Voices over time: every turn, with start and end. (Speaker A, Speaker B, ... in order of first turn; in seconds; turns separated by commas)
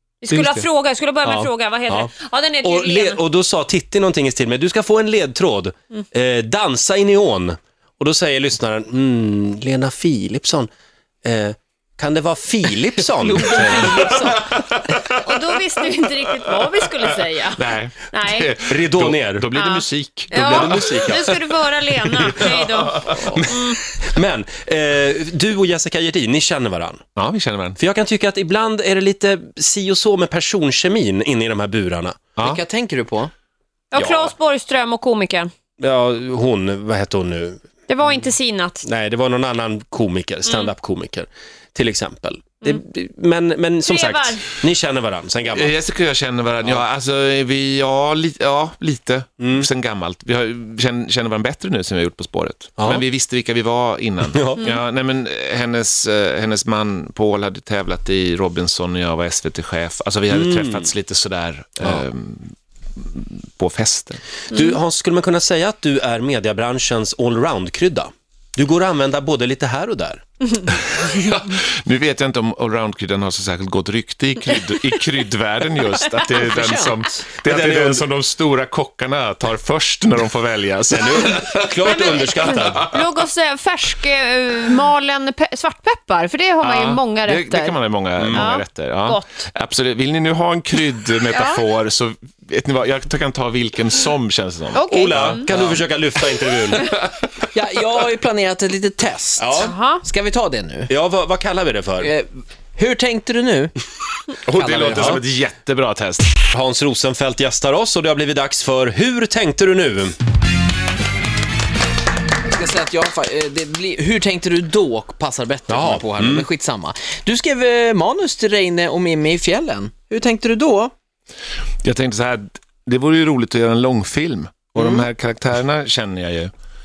Speaker A: 0.2-3.2, Speaker B: 0.3-0.6, Speaker B: 1.2-10.7, Speaker B: 11.2-14.2, Speaker A: 13.4-14.5, Speaker C: 13.5-15.6, Speaker A: 15.1-18.5, Speaker C: 16.2-16.8, Speaker C: 17.5-21.2, Speaker B: 18.7-19.5, Speaker A: 19.5-23.8, Speaker B: 20.3-21.4, Speaker C: 22.2-23.7, Speaker B: 24.0-27.0, Speaker C: 27.2-27.8, Speaker B: 27.8-32.3, Speaker C: 32.4-32.6, Speaker D: 32.4-33.3, Speaker A: 33.9-35.5, Speaker B: 34.0-34.2, Speaker B: 35.8-37.6, Speaker A: 37.9-38.9, Speaker B: 38.8-45.7, Speaker A: 43.9-44.5, Speaker C: 45.5-64.2, Speaker B: 49.4-49.7, Speaker B: 52.8-53.0, Speaker B: 54.3-54.7, Speaker B: 60.3-60.9, Speaker B: 64.5-70.2, Speaker C: 70.7-83.0, Speaker D: 76.5-77.2, Speaker B: 77.4-78.1, Speaker B: 80.9-82.9, Speaker A: 81.9-89.5, Speaker C: 86.6-95.9, Speaker B: 88.2-88.5, Speaker A: 91.2-91.6, Speaker A: 94.7-95.5, Speaker B: 94.9-96.9, Speaker C: 96.8-97.5, Speaker D: 97.5-100.9, Speaker B: 99.4-99.8, Speaker A: 99.5-100.0, Speaker B: 100.9-102.1, Speaker D: 102.0-103.7, Speaker C: 104.5-106.4, Speaker D: 104.5-105.1, Speaker B: 104.9-105.2, Speaker B: 106.5-110.2, Speaker D: 112.5-120.9, Speaker B: 115.7-116.5, Speaker C: 121.8-126.5